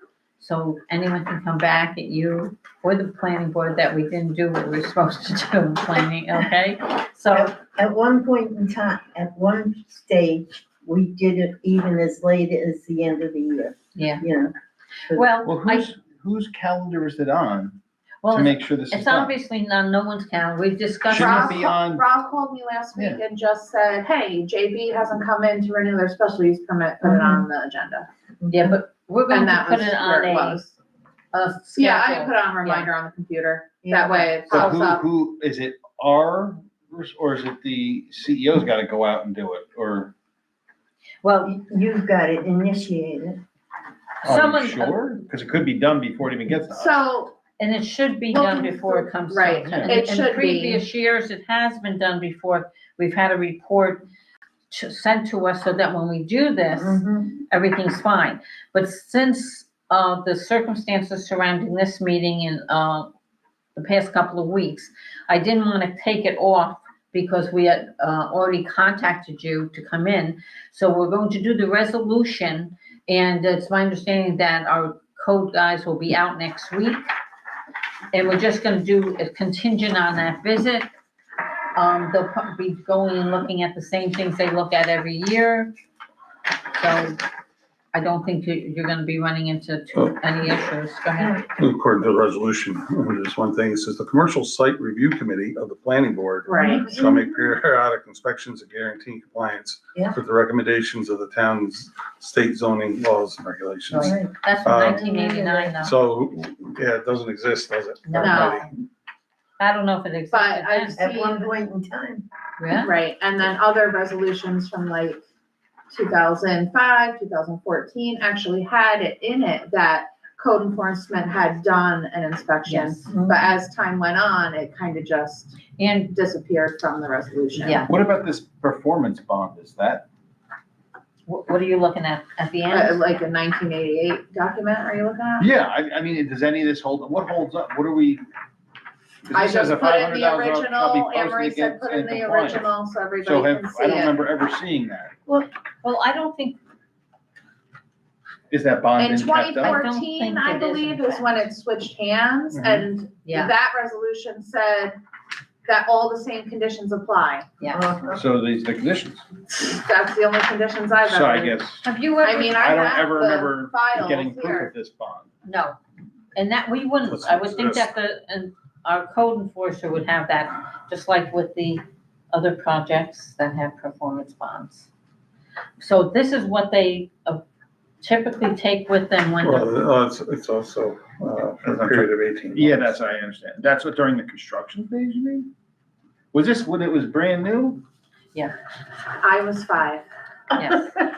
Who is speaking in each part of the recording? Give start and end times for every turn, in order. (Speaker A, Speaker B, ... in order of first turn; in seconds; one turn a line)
Speaker A: 0.4-7.5
Speaker B: 7.3-14.5
Speaker A: 13.9-14.2
Speaker A: 15.1-15.9
Speaker C: 15.4-17.8
Speaker A: 18.2-21.7
Speaker C: 18.3-19.3
Speaker C: 21.1-22.1
Speaker D: 21.1-28.1
Speaker C: 22.9-23.2
Speaker B: 27.0-27.4
Speaker A: 28.5-30.6
Speaker D: 29.3-30.8
Speaker A: 31.3-32.9
Speaker D: 31.8-35.0
Speaker B: 33.8-34.6
Speaker C: 34.5-40.1
Speaker A: 41.2-41.5
Speaker B: 41.4-43.4
Speaker A: 44.2-45.0
Speaker C: 44.2-47.0
Speaker D: 46.7-47.3
Speaker A: 47.6-54.0
Speaker D: 48.3-50.8
Speaker C: 49.6-50.0
Speaker A: 54.7-63.1
Speaker B: 56.8-57.4
Speaker A: 63.8-77.0
Speaker A: 78.1-80.9
Speaker A: 81.8-85.7
Speaker A: 86.8-87.2
Speaker A: 87.9-91.4
Speaker E: 91.6-105.0
Speaker D: 96.5-96.9
Speaker B: 96.7-97.5
Speaker A: 103.9-105.9
Speaker B: 104.0-104.3
Speaker B: 104.9-105.7
Speaker E: 105.8-108.8
Speaker A: 108.1-108.7
Speaker D: 108.2-108.6
Speaker A: 109.6-111.0
Speaker D: 110.3-111.5
Speaker B: 111.0-112.2
Speaker A: 112.6-112.9
Speaker D: 112.8-115.2
Speaker D: 115.9-125.6
Speaker A: 122.7-123.1
Speaker A: 125.8-126.1
Speaker D: 126.1-127.9
Speaker A: 127.6-127.9
Speaker C: 127.9-130.1
Speaker A: 131.3-133.0
Speaker D: 132.7-135.5
Speaker C: 135.4-138.2
Speaker C: 139.2-145.1
Speaker D: 139.3-144.2
Speaker A: 145.8-146.6
Speaker C: 148.5-149.8
Speaker D: 149.0-155.0
Speaker A: 149.6-151.5
Speaker A: 153.2-153.5
Speaker D: 155.7-157.4
Speaker A: 157.6-157.9
Speaker B: 157.7-158.2
Speaker C: 158.2-159.2
Speaker D: 159.5-161.6
Speaker C: 161.1-165.3
Speaker A: 161.8-162.6
Speaker D: 162.2-164.7
Speaker A: 165.4-165.8
Speaker A: 166.3-174.9
Speaker E: 167.1-167.9
Speaker A: 175.8-177.4
Speaker A: 178.0-179.7
Speaker E: 179.4-182.9
Speaker C: 181.6-185.5
Speaker C: 186.3-187.8
Speaker D: 189.2-190.1
Speaker A: 190.5-191.0